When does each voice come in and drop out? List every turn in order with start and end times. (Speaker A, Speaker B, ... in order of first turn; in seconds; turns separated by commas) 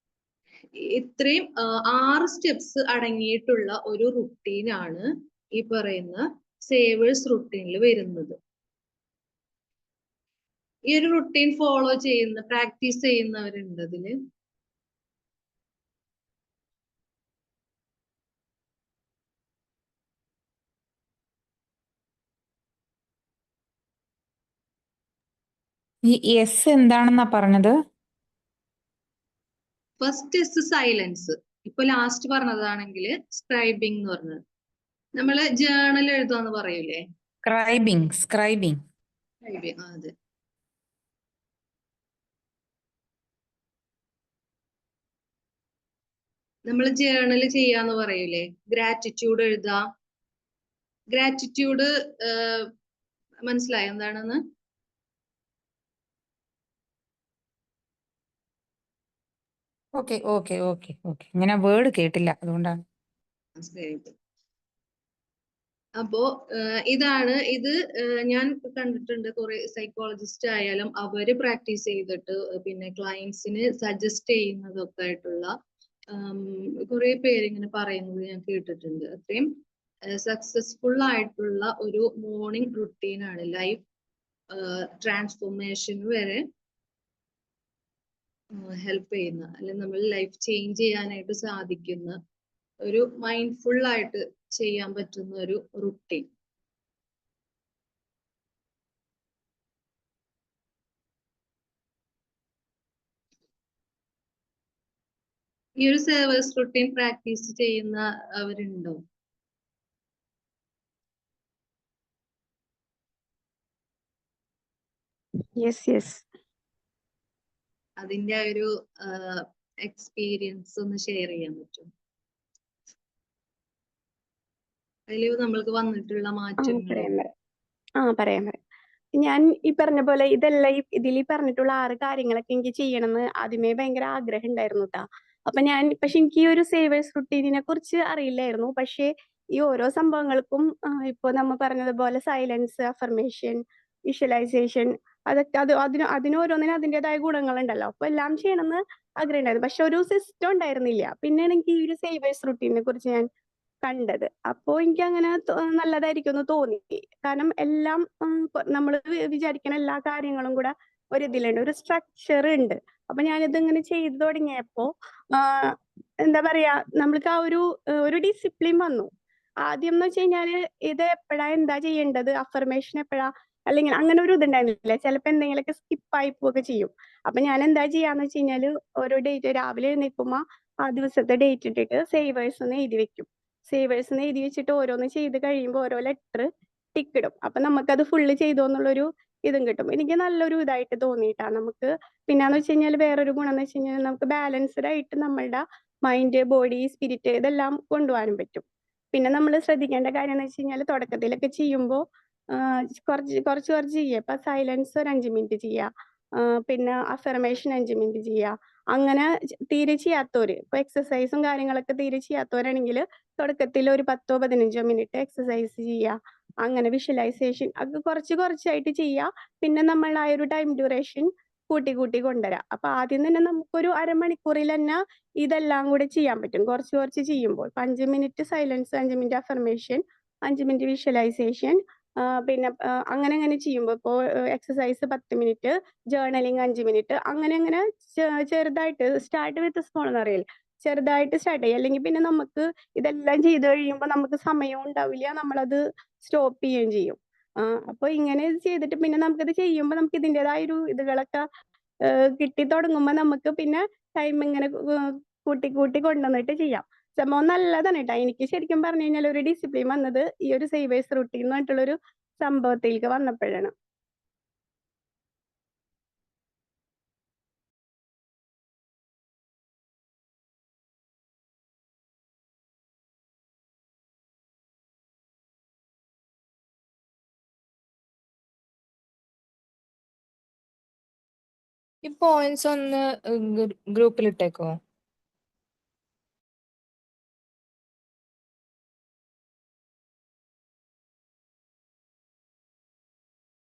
Speaker A: 0.8-8.4, Speaker A: 10.9-14.2, Speaker B: 26.1-27.7, Speaker A: 30.0-34.4, Speaker A: 35.2-37.0, Speaker B: 37.4-38.8, Speaker A: 39.5-40.1, Speaker A: 46.7-49.8, Speaker A: 51.1-52.7, Speaker A: 53.5-54.4, Speaker B: 60.0-62.8, Speaker A: 63.6-64.1, Speaker A: 66.0-75.5, Speaker A: 76.1-79.5, Speaker A: 80.1-83.8, Speaker A: 84.5-86.4, Speaker A: 88.5-92.2, Speaker A: 92.8-96.3, Speaker A: 105.8-109.0, Speaker C: 115.6-116.2, Speaker A: 118.0-121.9, Speaker A: 125.1-127.1, Speaker C: 126.6-127.3, Speaker C: 128.0-128.6, Speaker C: 129.2-153.3, Speaker C: 153.8-165.7, Speaker C: 166.2-169.1, Speaker C: 169.7-198.6, Speaker C: 199.1-202.0, Speaker C: 202.6-205.9, Speaker C: 206.4-251.4, Speaker C: 252.1-263.7, Speaker B: 282.0-284.8